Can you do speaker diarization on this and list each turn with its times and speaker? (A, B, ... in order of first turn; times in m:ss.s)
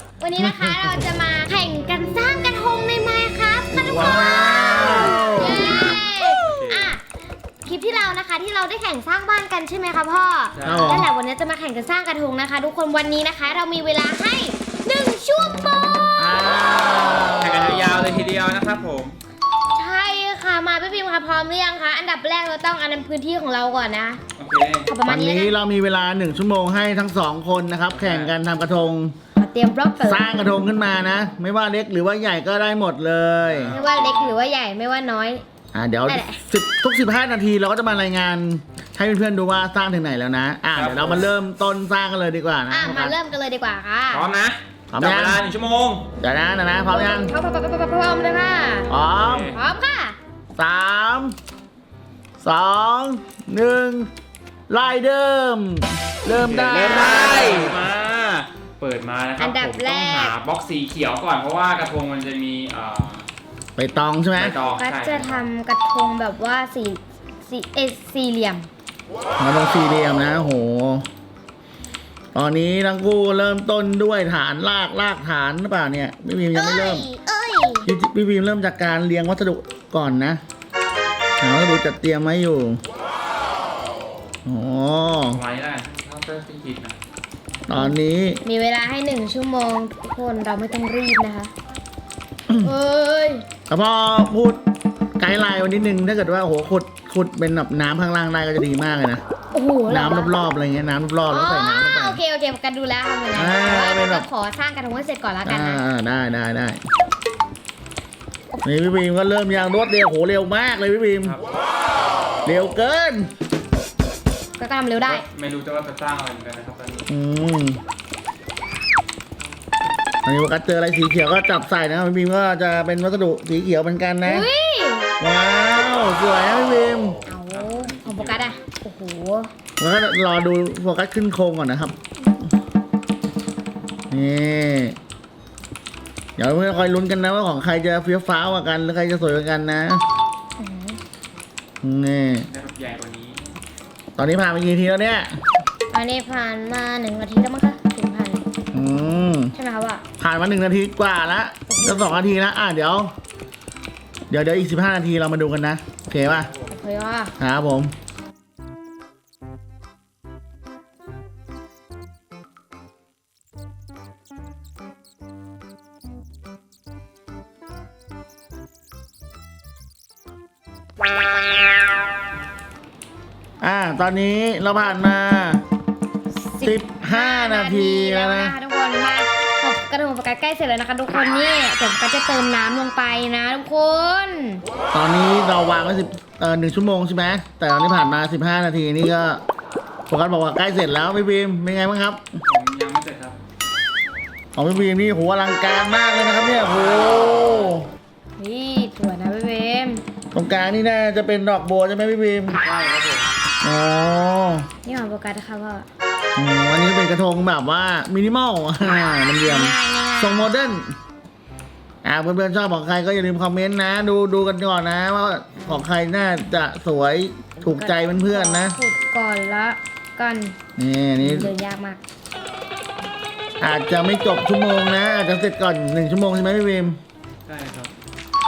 0:00.2-0:07.0 A
0:00.4-0:01.0 B
0:03.7-0:05.7 B
0:05.2-0:06.9 C
0:07.6-0:16.2 A
0:10.5-0:11.0 C
0:10.6-0:11.1 B
0:16.2-0:18.0 B
0:17.3-0:19.2 C
0:19.7-0:24.2 A
0:24.4-0:24.9 C
0:24.9-0:25.5 A
0:25.0-0:29.1 B
0:27.9-0:28.3 C
0:29.4-0:30.3 A
0:30.0-0:33.7 B
0:33.4-0:34.4 C
0:33.7-0:35.4 A
0:35.7-0:43.1 B
0:36.1-0:36.4 A
0:40.7-0:41.3 C
0:42.7-0:44.3 A
0:44.1-0:46.0 C
0:44.9-0:45.4 B
0:46.2-0:47.3 B
0:46.8-0:48.9 A
0:48.9-0:49.5 B
0:49.2-0:49.6 C
0:49.5-0:50.2 A
0:50.6-0:51.3 B
0:52.4-0:54.1 B
0:54.7-0:57.8 B
0:56.3-1:03.2 C
0:56.9-0:57.2 A
0:59.4-1:00.4 A
1:03.8-1:04.6 B
1:04.3-1:05.5 C
1:04.6-1:08.7 A
1:09.4-1:11.0 B
1:12.3-1:17.1 B
1:16.5-1:17.9 A
1:17.8-1:20.4 B
1:21.4-1:22.8 B
1:24.4-1:25.4 B
1:25.3-1:27.0 C
1:27.7-1:28.4 B
1:28.4-1:31.5 A
1:32.6-1:33.4 A
1:33.7-1:34.6 B
1:35.2-1:39.2 B
1:39.5-1:40.3 A
1:39.9-1:42.2 B
1:41.3-1:45.8 A
1:43.3-1:44.3 B
1:45.4-1:46.8 B
1:48.6-1:51.4 B
1:52.4-1:53.3 B
1:54.6-1:55.2 A
1:55.0-1:57.1 C
1:57.1-1:57.8 B
2:00.2-2:04.5 B
2:04.2-2:05.1 A
2:05.2-2:07.2 B
2:07.0-2:08.5 C
2:07.3-2:09.5 A
2:09.8-2:12.0 B
2:14.1-2:15.0 B
2:16.4-2:20.0 B
2:20.6-2:21.0 A
2:21.8-2:22.5 B
2:22.5-2:23.4 C
2:24.2-2:25.4 B
2:25.9-2:28.4 A
2:28.7-2:29.5 B
2:29.5-2:30.0 A
2:30.2-2:33.1 B
2:31.7-2:32.3 A
2:34.3-2:36.5 B
2:36.2-2:36.7 C
2:36.7-2:37.3 A
2:37.4-2:37.9 B
2:53.6-2:55.6 B
2:56.3-3:04.6 A
2:56.6-2:58.6 B
3:04.9-3:09.4 B
3:10.1-3:12.4 B
3:12.4-3:13.4 C
3:14.6-3:17.9 B
3:16.7-3:17.8 C
3:18.4-3:20.0 A
3:20.3-3:22.6 B
3:22.6-3:23.3 C
3:23.6-3:24.7 B
3:24.8-3:25.9 A
3:26.4-3:30.9 B
3:29.4-3:30.5 A
3:32.0-3:38.8 B
3:35.6-3:35.8 A
3:37.6-3:40.6 A
3:40.8-3:41.5 B
3:41.2-3:42.0 A
3:43.6-3:47.0 B
3:47.4-3:47.9 C